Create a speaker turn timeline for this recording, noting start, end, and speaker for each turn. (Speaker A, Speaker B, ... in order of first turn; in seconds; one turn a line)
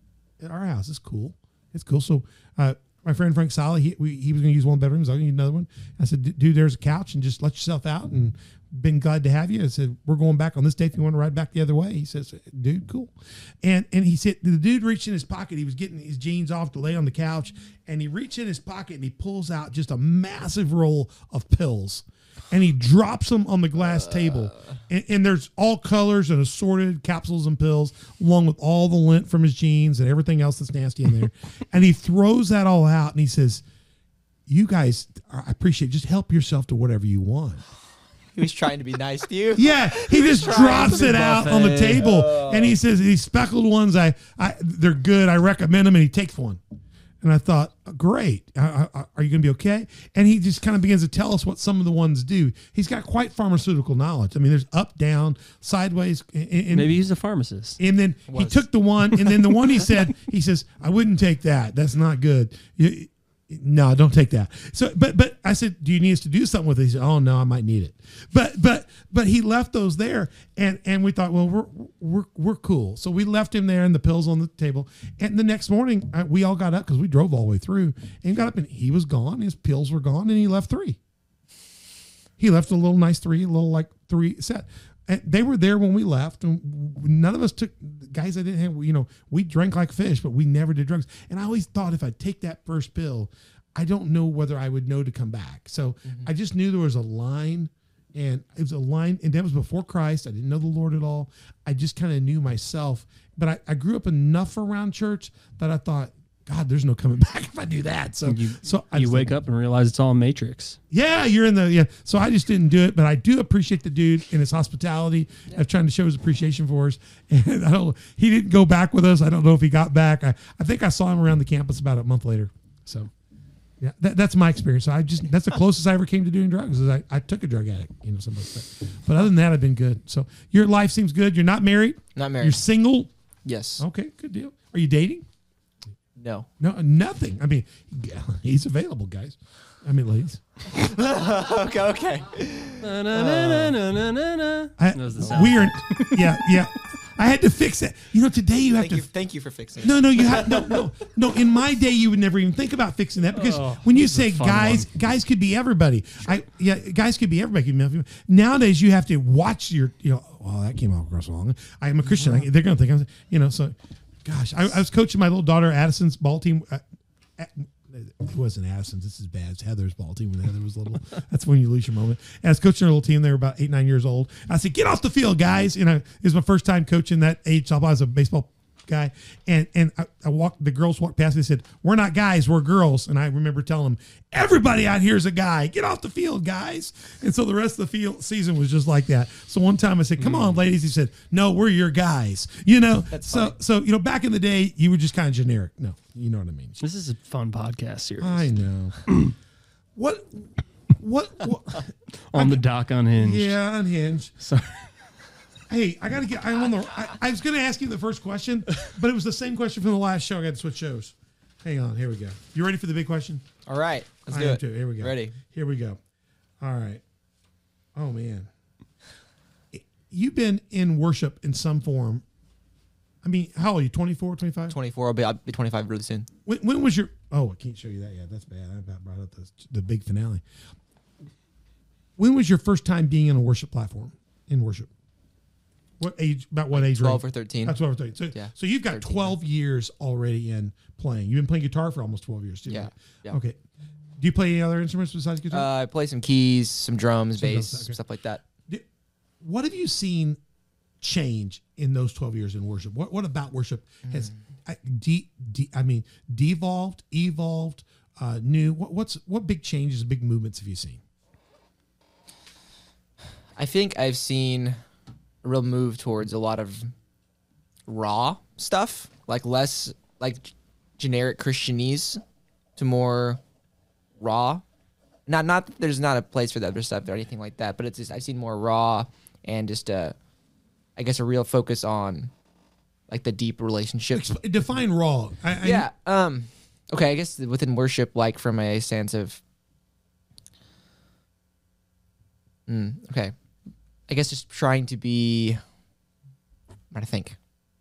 Speaker A: 0.4-33.6
Speaker B: 23.9-24.7
Speaker A: 34.5-37.6
Speaker B: 38.3-42.8
Speaker A: 39.5-46.6
Speaker C: 40.6-42.1
Speaker A: 47.2-57.0
Speaker C: 56.7-57.8
Speaker A: 57.8-81.0
Speaker B: 58.3-58.6
Speaker C: 59.1-59.9
Speaker A: 82.4-109.4
Speaker B: 96.0-96.3
Speaker C: 108.2-110.8
Speaker A: 110.9-123.1
Speaker A: 123.8-133.1
Speaker B: 132.2-132.6
Speaker B: 133.4-133.8
Speaker A: 133.8-135.2
Speaker B: 136.2-136.5
Speaker A: 136.6-140.4
Speaker B: 140.7-142.9
Speaker C: 142.8-146.6
Speaker A: 143.2-143.7
Speaker A: 144.8-149.1
Speaker B: 148.8-150.8
Speaker A: 149.8-166.8
Speaker C: 153.3-154.9
Speaker A: 167.4-196.8
Speaker C: 190.2-190.6
Speaker B: 193.1-193.5
Speaker C: 196.8-198.5
Speaker A: 198.2-199.0
Speaker C: 199.1-199.3
Speaker A: 199.9-202.6
Speaker C: 202.3-203.6
Speaker A: 203.2-204.3
Speaker C: 204.4-205.0
Speaker A: 205.7-213.4
Speaker B: 213.7-215.3
Speaker A: 214.3-216.0
Speaker A: 216.6-217.0
Speaker A: 217.9-218.5
Speaker A: 219.7-222.2
Speaker A: 223.2-224.8
Speaker B: 224.7-226.3
Speaker A: 226.4-230.4
Speaker A: 232.2-234.9
Speaker A: 236.0-243.6
Speaker B: 236.7-237.8
Speaker B: 238.3-239.4
Speaker B: 242.7-243.4
Speaker A: 244.2-245.7
Speaker B: 245.5-248.4
Speaker A: 247.4-248.0
Speaker A: 249.4-250.4
Speaker A: 251.0-261.0
Speaker B: 254.1-254.3
Speaker B: 263.6-264.8
Speaker B: 265.4-266.9
Speaker B: 267.9-272.2
Speaker B: 272.8-273.4
Speaker B: 274.2-274.6
Speaker B: 275.3-280.1
Speaker B: 280.9-282.3
Speaker B: 283.1-284.2
Speaker A: 284.1-285.9
Speaker B: 285.6-289.4
Speaker B: 292.7-293.3
Speaker B: 294.1-295.6
Speaker B: 296.9-297.4